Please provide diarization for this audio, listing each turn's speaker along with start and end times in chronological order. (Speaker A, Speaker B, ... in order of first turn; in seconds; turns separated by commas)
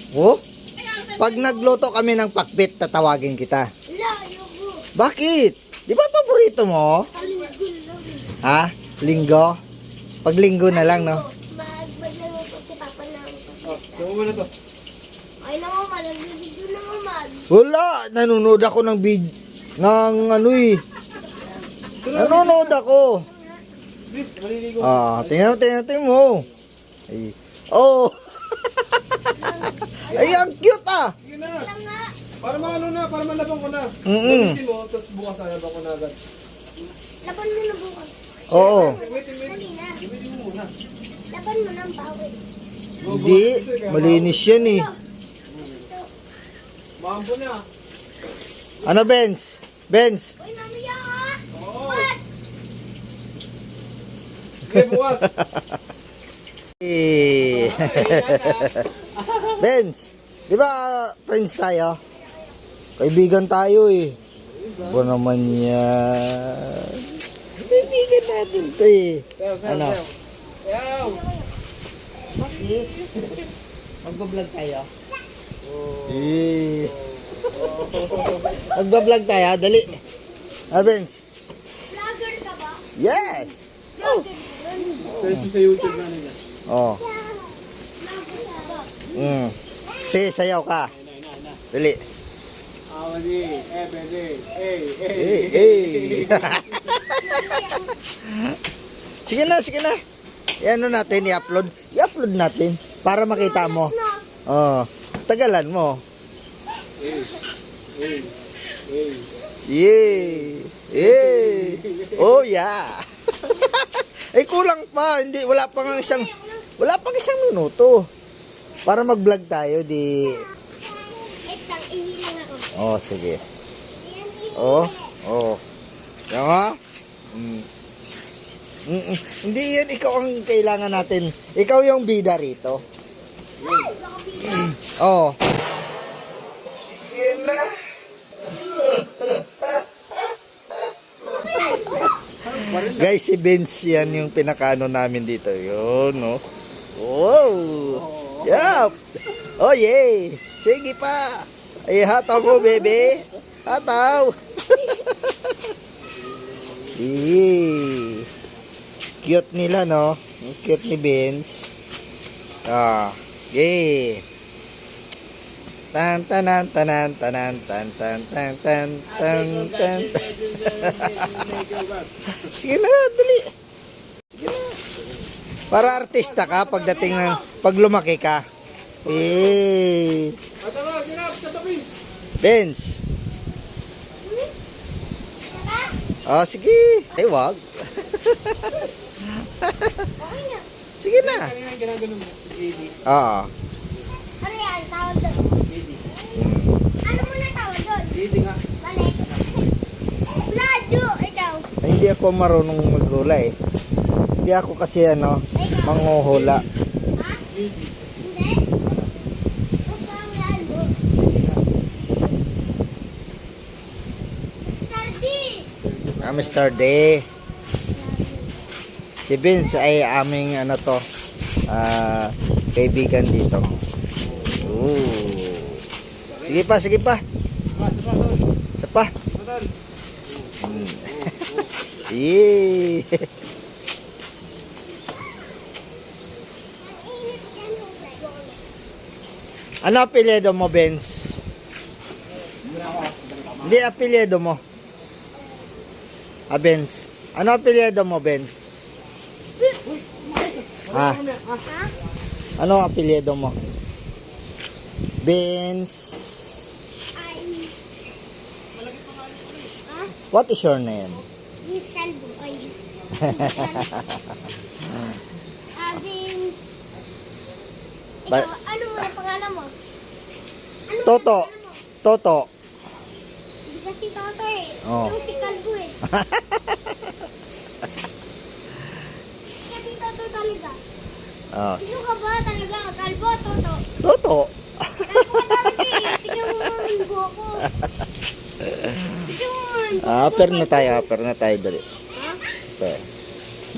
Speaker A: 0.1-0.4, Speaker B: 0.7-1.8, Speaker A: 1.2-3.7, Speaker B: 3.9-4.8, Speaker A: 5.0-7.1, Speaker B: 7.1-8.3, Speaker A: 8.4-9.6, Speaker A: 10.2-11.2, Speaker B: 10.7-14.1, Speaker C: 13.6-14.5, Speaker B: 15.4-17.4, Speaker A: 17.5-20.8, Speaker B: 20.3-21.7, Speaker C: 22.0-22.7, Speaker A: 22.1-23.2, Speaker B: 23.0-23.6, Speaker C: 24.1-25.6, Speaker A: 24.8-26.4, Speaker A: 27.1-29.2, Speaker B: 29.3-30.5, Speaker A: 30.1-31.1, Speaker C: 31.2-31.7, Speaker B: 31.5-32.1, Speaker C: 32.4-36.2, Speaker A: 34.0-34.6, Speaker B: 37.2-40.0, Speaker A: 38.5-39.0, Speaker C: 38.6-40.7, Speaker B: 41.3-42.4, Speaker C: 43.0-44.4, Speaker A: 43.0-44.9, Speaker B: 44.4-45.0, Speaker C: 45.5-45.8, Speaker B: 45.8-46.1, Speaker C: 47.0-47.6, Speaker B: 48.8-49.1, Speaker A: 48.8-50.3, Speaker B: 50.4-52.3, Speaker C: 51.5-52.1, Speaker C: 54.6-55.4, Speaker A: 56.8-58.7, Speaker C: 57.5-59.6, Speaker A: 59.6-62.0, Speaker A: 63.0-64.2, Speaker C: 64.5-65.1, Speaker A: 64.8-67.0, Speaker A: 67.6-70.0, Speaker C: 69.4-70.1, Speaker C: 70.6-71.2, Speaker B: 71.0-71.5, Speaker C: 72.4-73.3, Speaker A: 72.5-72.9, Speaker A: 74.0-74.9, Speaker C: 75.6-76.4, Speaker A: 76.1-77.0, Speaker C: 77.4-78.6, Speaker A: 78.7-80.0, Speaker A: 80.7-81.2, Speaker B: 81.9-82.9, Speaker A: 83.0-84.2, Speaker B: 84.0-85.1, Speaker C: 85.0-86.4, Speaker A: 85.2-85.5, Speaker A: 86.7-87.0, Speaker B: 87.0-88.9, Speaker A: 89.1-90.9, Speaker B: 89.8-90.4, Speaker C: 90.9-91.6, Speaker A: 91.7-92.0, Speaker C: 92.9-97.0, Speaker A: 95.1-97.0, Speaker B: 97.1-98.0, Speaker A: 98.2-98.6, Speaker A: 99.2-100.0, Speaker A: 100.6-103.9, Speaker B: 103.3-104.2, Speaker A: 104.5-106.0, Speaker C: 107.0-107.3, Speaker C: 107.9-108.3, Speaker C: 108.8-109.3, Speaker A: 109.7-118.0, Speaker C: 110.2-112.4, Speaker B: 115.8-116.7, Speaker A: 118.8-120.4, Speaker B: 120.2-122.7, Speaker A: 122.8-123.4, Speaker B: 123.9-125.1, Speaker A: 124.6-125.6, Speaker A: 126.3-126.8, Speaker A: 127.3-127.7, Speaker A: 128.9-132.8, Speaker C: 133.6-133.9, Speaker B: 133.6-134.7, Speaker A: 134.5-135.4, Speaker A: 136.9-137.8, Speaker A: 138.6-139.7, Speaker B: 141.3-142.1, Speaker A: 141.4-141.9, Speaker C: 142.4-143.1, Speaker A: 142.6-146.4, Speaker A: 146.9-155.5, Speaker C: 147.9-148.9, Speaker C: 156.5-157.0, Speaker A: 156.9-158.3, Speaker A: 159.2-161.7, Speaker A: 162.7-164.2, Speaker A: 165.9-171.4, Speaker C: 169.1-172.2, Speaker A: 172.3-173.5, Speaker A: 174.3-174.8, Speaker C: 175.7-177.3, Speaker A: 175.7-178.4, Speaker B: 177.0-177.4, Speaker C: 179.1-179.6, Speaker A: 179.1-180.3, Speaker C: 180.6-181.9, Speaker A: 182.4-183.0, Speaker B: 184.2-184.5, Speaker B: 185.5-185.9, Speaker A: 186.2-189.9, Speaker B: 190.2-190.6, Speaker A: 191.0-191.5, Speaker C: 191.1-192.9, Speaker A: 193.1-193.5, Speaker B: 194.4-195.5, Speaker C: 195.6-196.0, Speaker A: 196.3-196.7, Speaker B: 197.0-198.2, Speaker C: 198.1-198.6, Speaker B: 198.8-199.7, Speaker B: 200.3-201.7, Speaker A: 201.8-203.5, Speaker A: 204.4-206.6, Speaker B: 205.5-206.2, Speaker C: 206.1-206.7, Speaker B: 207.2-207.4, Speaker C: 207.5-208.1, Speaker B: 208.2-208.6, Speaker B: 209.8-210.9, Speaker B: 214.6-215.7, Speaker C: 215.8-216.7, Speaker A: 216.2-217.2, Speaker B: 217.9-218.6, Speaker A: 219.2-221.0, Speaker A: 221.7-223.8, Speaker C: 224.3-224.6, Speaker A: 224.4-225.8, Speaker C: 226.3-226.6, Speaker A: 226.4-227.2, Speaker C: 227.7-228.4, Speaker A: 228.8-229.1, Speaker C: 229.3-229.7, Speaker C: 230.3-231.7, Speaker A: 230.6-231.3, Speaker A: 232.1-233.2, Speaker B: 236.8-238.5, Speaker A: 239.8-241.4, Speaker C: 242.6-243.8, Speaker A: 243.6-244.6, Speaker A: 246.5-248.7, Speaker C: 249.7-251.6, Speaker A: 250.9-251.2, Speaker B: 251.6-251.9, Speaker A: 252.6-253.6, Speaker A: 255.2-256.6, Speaker B: 257.1-257.7, Speaker C: 258.7-259.7, Speaker B: 259.9-260.1, Speaker A: 260.3-261.2, Speaker B: 261.6-264.0, Speaker B: 265.7-266.7, Speaker B: 268.3-269.7, Speaker B: 270.9-271.8, Speaker A: 271.0-271.5, Speaker A: 272.0-272.5, Speaker B: 273.7-276.0, Speaker A: 274.8-275.1, Speaker A: 276.1-277.1, Speaker B: 279.6-280.8, Speaker A: 281.5-282.0, Speaker B: 281.8-283.8, Speaker A: 284.0-286.4, Speaker B: 285.1-287.7, Speaker A: 288.8-289.1, Speaker B: 289.1-291.1, Speaker A: 290.0-291.8, Speaker B: 292.1-292.4